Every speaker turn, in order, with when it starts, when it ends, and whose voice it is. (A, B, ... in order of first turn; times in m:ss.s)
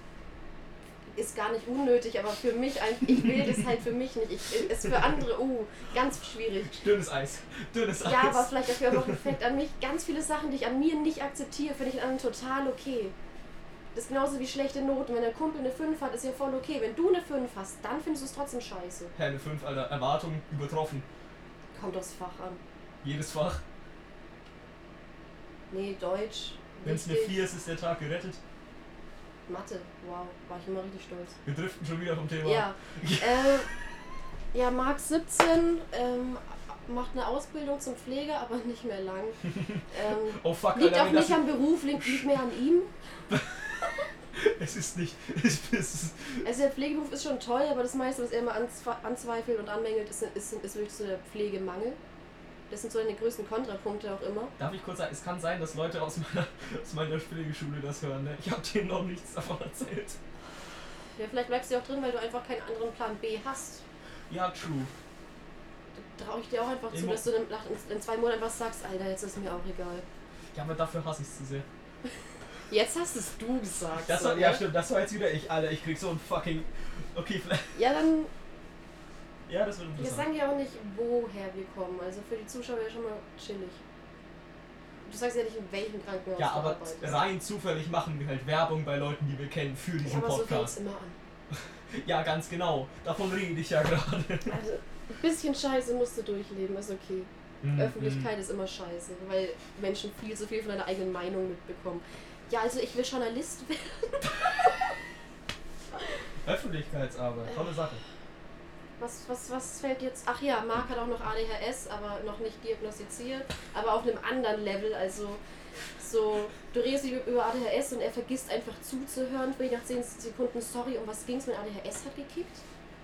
0:01.2-0:06.8 A
0:03.1-0:03.7 B
0:06.6-0:09.4 B
0:08.0-0:13.2 A
0:13.9-0:19.1 A
0:19.2-0:21.1 B
0:21.7-0:22.6 A
0:23.0-0:23.6 B
0:25.7-0:27.4 A
0:26.8-0:28.4 B
0:29.5-0:31.4 A
0:31.4-0:33.6 B
0:32.4-0:33.7 A
0:34.5-0:42.9 A
0:40.3-0:42.4 B
0:43.3-0:46.4 B
0:46.4-0:52.0 A
0:52.7-0:54.5 A
0:54.6-1:00.2 B
1:01.2-1:03.8 A
1:04.3-1:04.9 B
1:06.2-1:10.0 A
1:06.9-1:07.3 B
1:10.5-1:11.7 B
1:12.7-1:14.7 A
1:14.0-1:17.8 B
1:17.7-1:18.3 A
1:19.5-1:20.3 B
1:20.0-1:23.8 A
1:25.0-1:27.2 A
1:26.4-1:30.8 B
1:30.0-1:31.2 A
1:31.5-1:34.6 B
1:34.5-1:44.7 A
1:37.6-1:38.3 B
1:46.4-1:48.0 B
1:47.5-1:47.7 A
1:49.0-1:55.4 A
1:56.0-2:02.6 A